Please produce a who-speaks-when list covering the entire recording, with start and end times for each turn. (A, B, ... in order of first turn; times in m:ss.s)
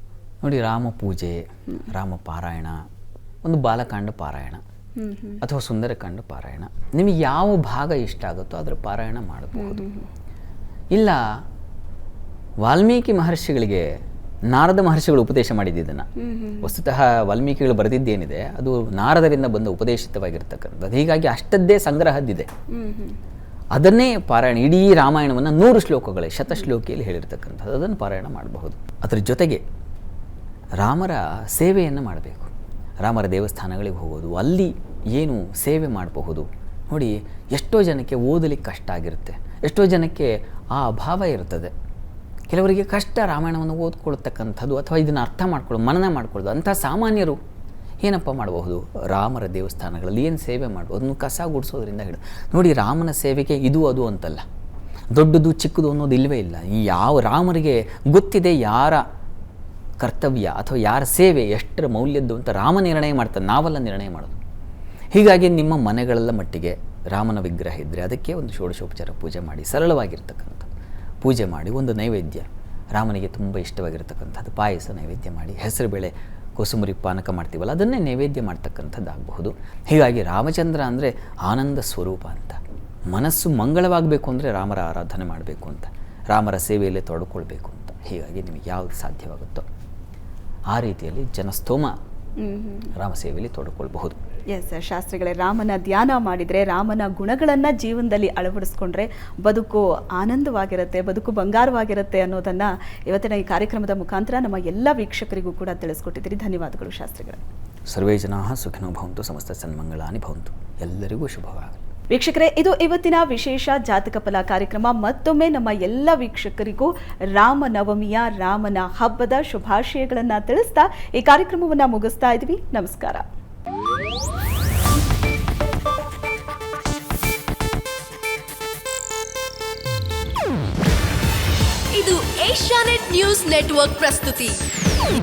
0:00.4-0:02.8 A
0:03.4-0:04.6 A
0:05.0-0:05.4 B
0:05.4-0:09.9 A
0:09.6-0:10.1 B
0:10.9-0:11.4 A
0:12.6-0:13.9 A
0:14.5-0:16.1 A
0:16.2-0:16.7 B
0:16.6-0:22.5 A
0:22.7-0:23.2 B
0:23.7-0:29.6 A
0:30.8-0:32.5 A
0:33.0-0:41.7 A
0:42.5-0:47.4 A
0:48.0-0:54.4 A
0:55.1-0:59.0 A
1:00.0-1:04.4 A
1:05.1-1:10.7 A
1:11.2-1:22.6 A
1:23.1-1:29.7 A
1:30.7-1:32.0 A
1:32.4-1:32.9 B
1:33.0-1:34.2 A
1:34.5-1:47.4 B
1:47.9-1:51.8 A
1:52.1-2:03.3 B
2:11.9-2:14.6 C